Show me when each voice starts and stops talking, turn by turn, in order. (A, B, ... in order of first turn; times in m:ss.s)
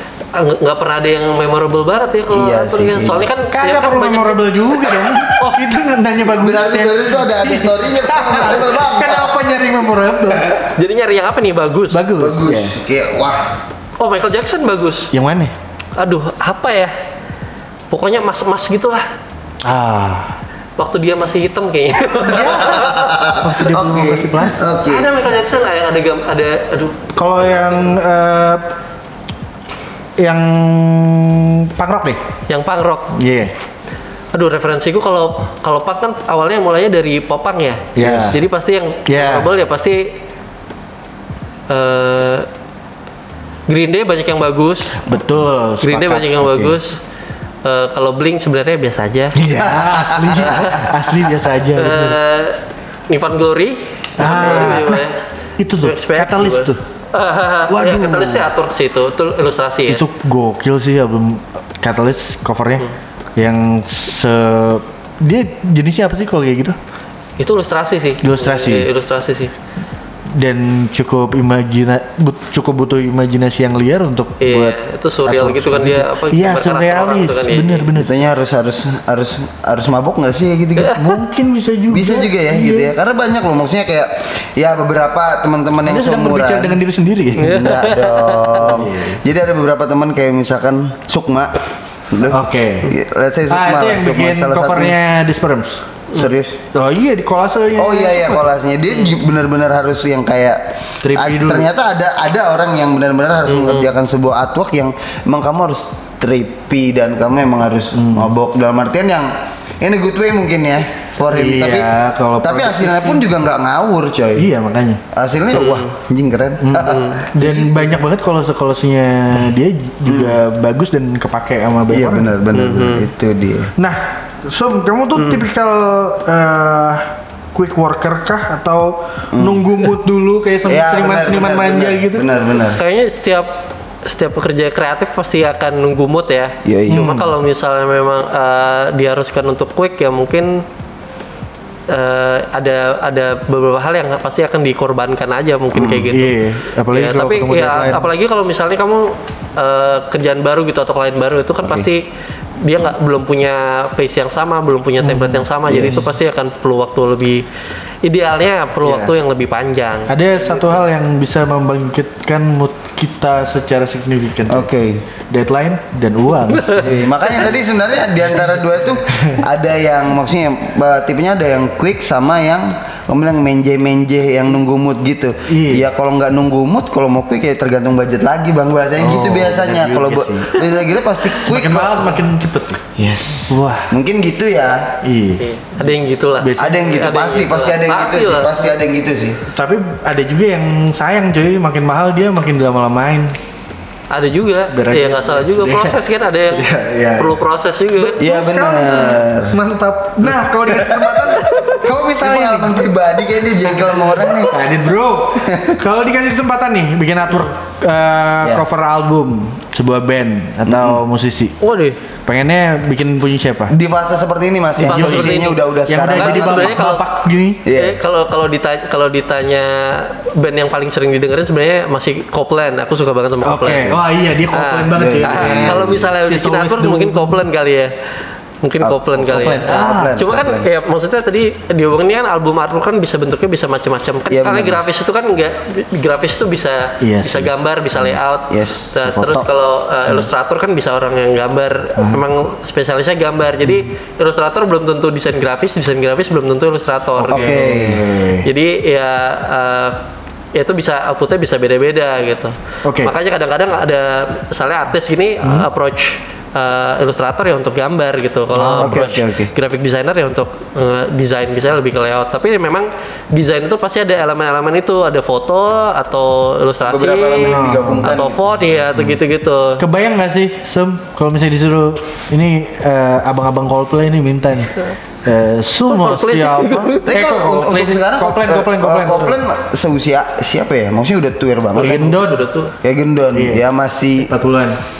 0:00.3-0:05.7 A
0:02.3-0:03.3 B
0:03.5-0:10.6 C
0:06.3-0:09.4 B
0:10.8-0:12.0 A
0:11.9-0:12.7 C
0:12.2-0:13.6 B
0:14.0-0:15.1 A
0:15.1-0:15.5 C
0:16.0-0:16.9 A
0:17.9-0:19.1 A
0:19.6-0:20.4 C
0:20.8-0:23.0 A
0:22.2-0:24.6 C
0:22.6-0:25.1 B
0:24.9-0:27.9 A
0:27.2-0:28.7 C
0:30.2-0:32.2 C
0:32.5-0:33.1 A
0:33.2-0:33.5 C
0:34.3-0:40.2 A
0:38.0-0:38.4 C
0:38.0-0:38.4 B
0:39.1-0:39.5 C
0:41.7-0:42.5 A
0:43.7-0:45.0 A
0:45.0-0:46.4 C
0:45.8-0:47.0 A
0:46.4-0:46.8 B
0:47.6-0:49.4 A
0:49.4-0:52.2 C
0:49.6-0:50.8 B
0:50.4-0:50.9 A
0:51.8-0:55.2 A
0:54.2-0:55.1 C
0:55.6-0:56.8 C
0:55.8-1:00.0 A
0:57.7-0:58.5 C
0:59.9-1:06.8 C
1:07.4-1:09.5 A
1:08.2-1:08.9 C
1:10.4-1:18.2 C
1:14.4-1:17.9 A
1:18.0-1:21.0 B
1:20.8-1:21.2 A
1:21.0-1:23.0 C
1:21.9-1:31.6 B
1:25.8-1:27.6 C
1:27.4-1:28.7 A
1:28.6-1:29.2 C
1:32.1-1:35.0 B
1:32.3-1:33.0 C
1:33.5-1:35.8 C
1:36.1-1:36.6 B
1:36.7-1:38.5 C
1:37.8-1:49.3 B
1:41.0-1:41.7 C
1:43.5-1:43.9 A
1:48.0-1:48.3 C
1:49.8-1:54.5 B
1:51.2-1:53.2 C
1:54.4-1:55.0 C
1:55.1-1:57.9 B
1:55.5-1:55.9 A
1:56.6-2:02.3 C
1:56.8-1:57.2 A
2:00.1-2:00.4 B
2:01.9-2:03.7 B
2:02.5-2:03.0 A
2:03.8-2:12.3 C
2:09.3-2:09.6 B
2:10.7-2:12.8 B
2:12.8-2:20.7 A
2:16.6-2:17.3 B
2:16.9-2:17.3 C
2:21.9-2:26.4 A
2:25.7-2:26.0 B
2:26.1-2:28.1 C
2:26.9-2:32.0 A
2:31.6-2:31.9 B
2:32.6-2:37.4 A
2:35.0-2:36.0 C
2:35.7-2:36.0 B
2:38.0-2:40.7 A
2:38.8-2:39.1 C
2:40.1-2:44.7 C
2:44.5-2:45.0 B
2:45.3-2:47.0 C
2:46.8-3:02.2 B
2:49.1-2:49.4 C
2:55.5-2:55.9 C
2:59.0-3:00.6 C
3:01.3-3:03.9 C
3:03.0-3:04.9 B
3:05.0-3:06.8 C
3:05.4-3:08.6 A
3:06.6-3:09.4 B
3:09.5-3:13.3 C
3:14.1-3:16.6 A
3:14.7-3:17.4 C
3:17.2-3:18.2 A
3:18.0-3:22.9 C
3:18.2-3:19.6 B
3:20.7-3:24.6 B
3:21.4-3:21.8 A
3:23.7-3:31.6 C
3:25.4-3:25.8 B
3:30.7-3:31.0 B
3:31.6-3:32.0 A
3:32.3-3:33.8 C
3:33.7-3:36.8 B
3:34.8-3:37.6 C
3:34.8-3:37.0 A
3:37.6-3:38.0 B
3:37.7-3:44.0 A
3:43.4-3:47.5 C
3:44.5-3:47.9 A
3:44.9-3:46.1 B
3:48.6-4:07.6 A
3:48.8-3:50.7 B
3:49.4-3:50.2 C
3:54.3-3:54.9 B
3:57.0-3:57.5 C
3:58.5-3:59.5 B
4:02.0-4:02.2 C
4:07.2-4:08.5 C
4:07.3-4:08.0 B
4:08.4-4:10.0 A
4:10.5-4:29.8 A
4:12.8-4:13.1 C
4:18.5-4:19.1 C
4:18.8-4:19.5 B
4:26.9-4:28.8 B
4:27.5-4:28.1 C
4:29.8-4:39.4 C
4:35.9-4:37.2 A
4:37.1-4:42.1 B
4:41.8-4:42.5 C
4:41.8-4:42.7 A
4:42.8-4:44.3 B
4:43.3-4:43.7 C
4:44.2-4:44.8 C